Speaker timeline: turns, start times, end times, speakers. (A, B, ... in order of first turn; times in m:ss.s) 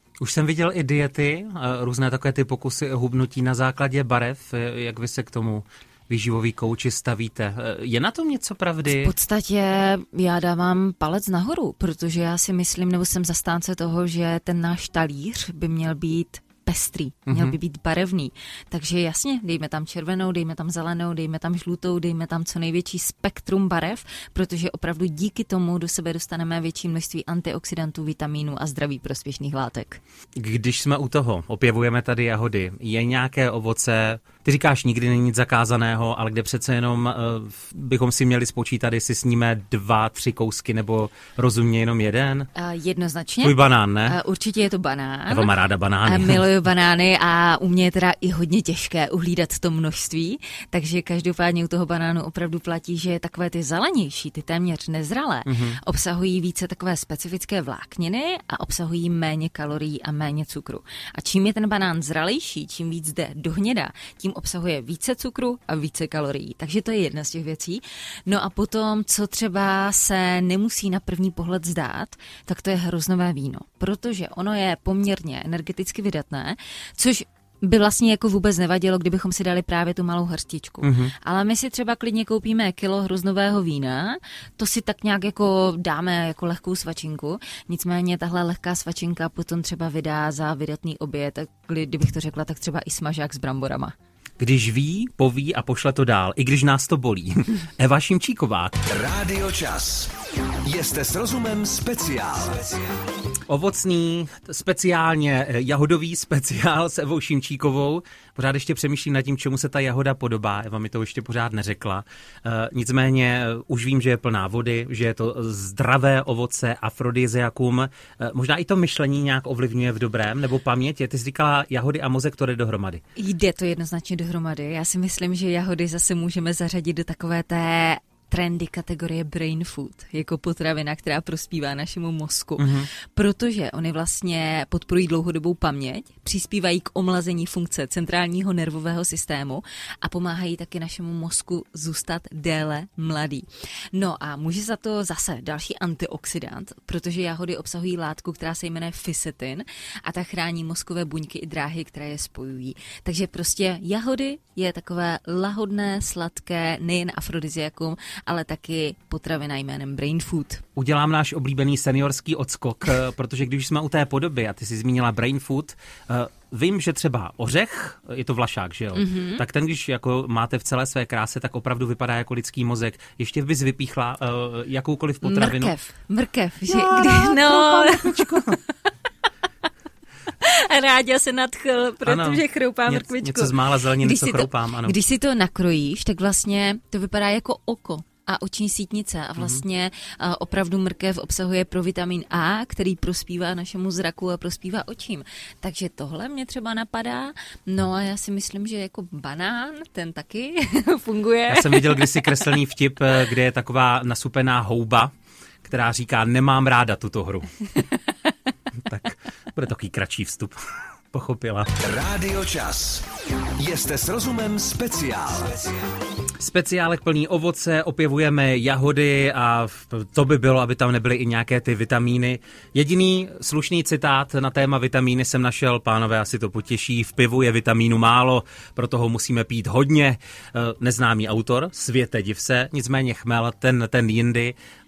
0:00.2-0:09.1 A
0:08.9-0:30.0 B
0:17.3-0:17.6 A
0:30.4-0:42.5 A
0:42.5-0:45.5 B
0:43.4-0:44.2 A
0:45.3-0:46.4 A
0:46.0-1:33.9 B
0:55.4-0:55.8 A
1:20.8-1:21.1 A
1:34.4-1:38.9 A
1:39.0-1:42.7 C
1:43.5-2:03.0 A
2:03.2-2:40.6 B
2:12.6-2:12.9 A
2:40.8-2:55.7 A
2:48.9-2:49.4 B
2:55.2-2:58.7 B
2:56.7-2:58.6 A
3:00.4-3:22.4 B
3:02.0-3:05.0 A
3:09.4-3:09.6 A
3:21.5-3:25.1 A
3:25.6-3:27.7 A
3:28.8-3:30.6 A
3:31.1-3:31.8 A
3:32.0-3:35.6 C
3:36.4-3:54.5 A